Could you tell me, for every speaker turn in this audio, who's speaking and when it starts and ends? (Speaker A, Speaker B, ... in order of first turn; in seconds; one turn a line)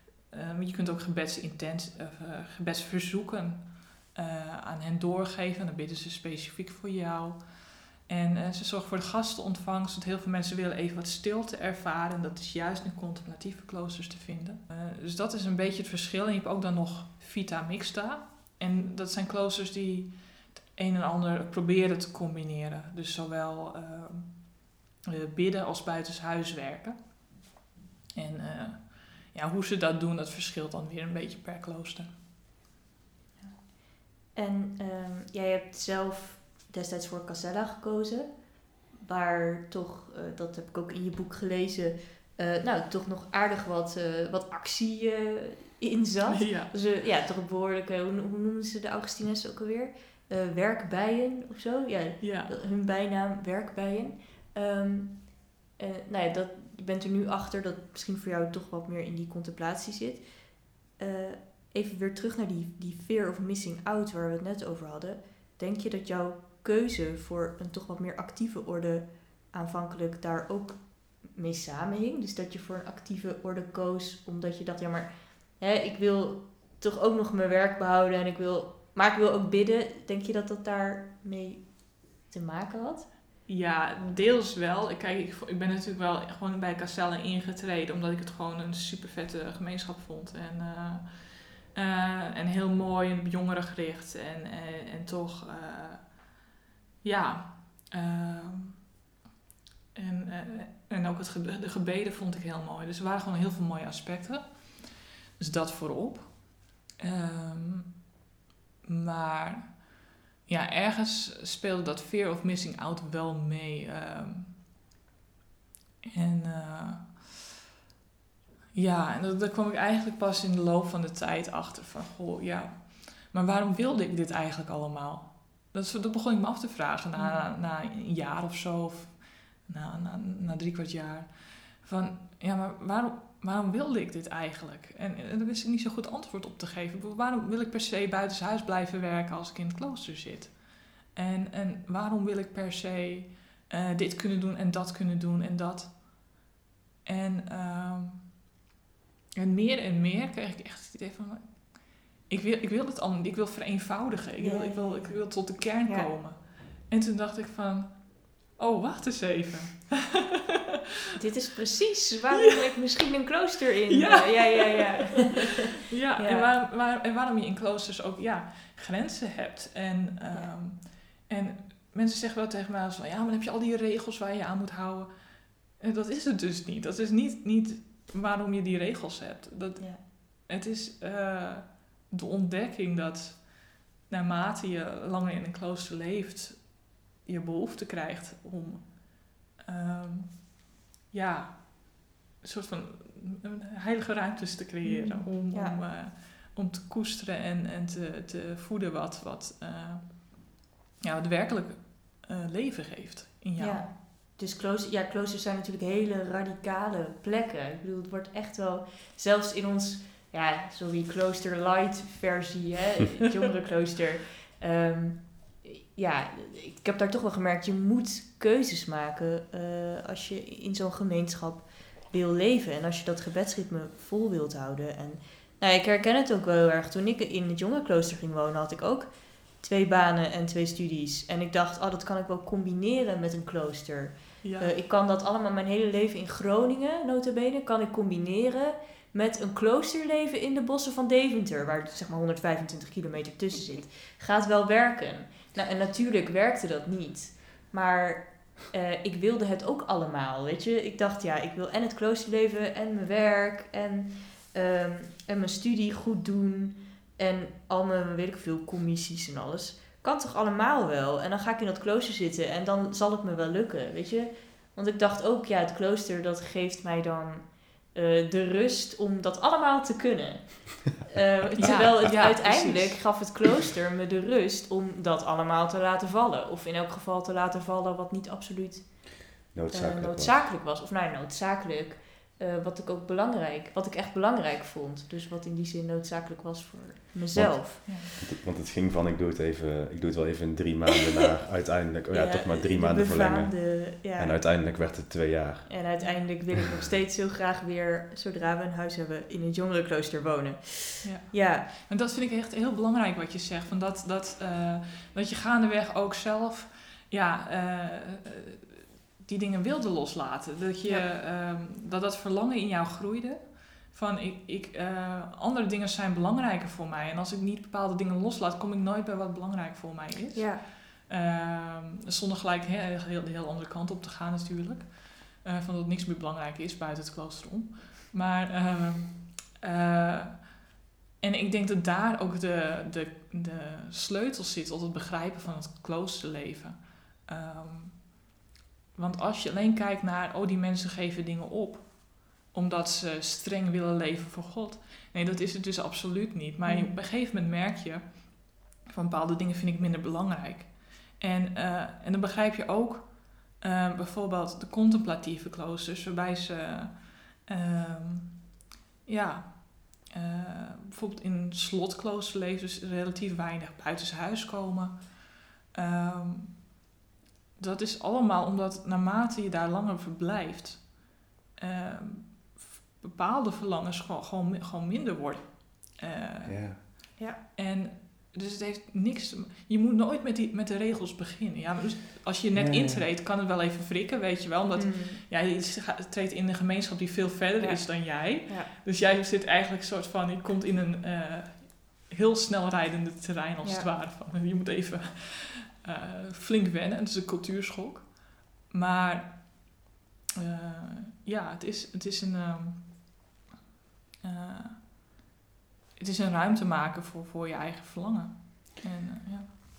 Speaker A: 0.3-27.0
Speaker A: 28.1-32.1
Speaker B: 33.4-83.1
Speaker A: 46.3-46.7
Speaker A: 52.2-52.5
Speaker A: 83.5-96.2
Speaker A: 97.0-98.9
Speaker A: 99.9-108.0
Speaker A: 108.9-109.9
Speaker A: 110.5-114.6
Speaker A: 116.0-117.4
Speaker A: 118.7-146.0
Speaker B: 127.2-127.5
Speaker A: 147.1-148.3
Speaker A: 149.4-160.6
Speaker B: 154.4-156.1
Speaker B: 161.2-165.5
Speaker A: 163.9-190.6
Speaker B: 166.2-166.5
Speaker A: 191.1-203.9
Speaker B: 194.8-195.8
Speaker B: 203.6-229.1
Speaker B: 229.6-288.1
Speaker A: 234.4-234.7
Speaker A: 271.6-273.2
Speaker C: 279.5-280.4
Speaker C: 287.3-295.7
Speaker B: 292.1-294.4
Speaker B: 295.7-301.7
Speaker A: 301.0-330.5
Speaker B: 320.4-320.6
Speaker A: 331.2-338.2
Speaker A: 338.9-358.4
Speaker B: 346.7-347.0
Speaker A: 359.1-366.7
Speaker A: 367.6-399.8
Speaker C: 376.4-376.8
Speaker C: 382.5-383.1
Speaker B: 384.8-385.2
Speaker B: 387.6-388.7
Speaker B: 393.6-393.9
Speaker A: 400.4-403.1
Speaker A: 404.2-404.9
Speaker A: 406.0-409.5